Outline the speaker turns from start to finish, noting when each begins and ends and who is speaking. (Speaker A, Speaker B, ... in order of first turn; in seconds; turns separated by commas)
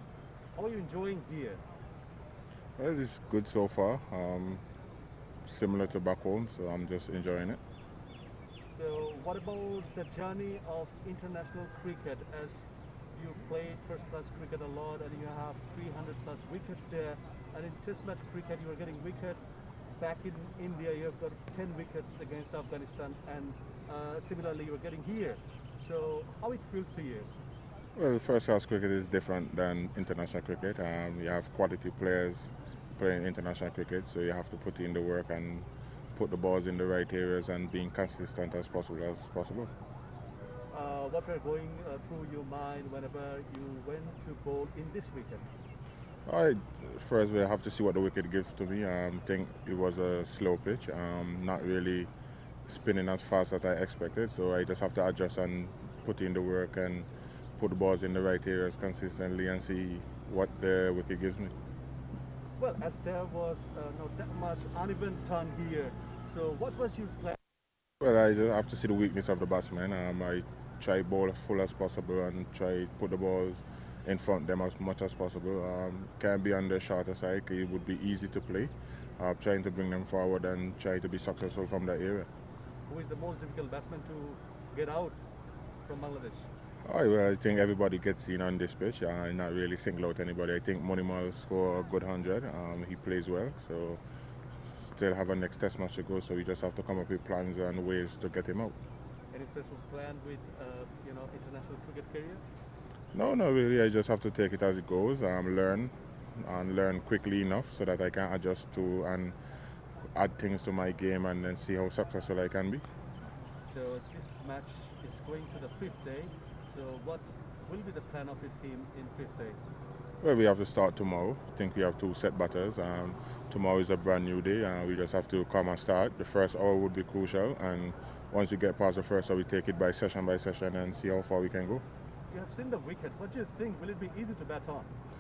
Speaker A: 0.6-1.6, Speaker B: 2.8-4.6, Speaker B: 5.4-7.6, Speaker A: 8.7-19.5, Speaker A: 20.0-27.3, Speaker B: 28.0-39.7, Speaker A: 40.7-45.5, Speaker B: 46.3-52.1, Speaker B: 52.7-61.5, Speaker A: 62.6-67.4, Speaker B: 68.0-82.3, Speaker A: 82.9-85.2, Speaker A: 85.9-86.5, Speaker B: 86.8-94.0, Speaker B: 94.7-98.7, Speaker A: 99.3-102.4, Speaker B: 103.1-109.3, Speaker B: 110.2-112.8, Speaker A: 113.7-119.6, Speaker B: 120.2-131.8, Speaker A: 132.3-134.9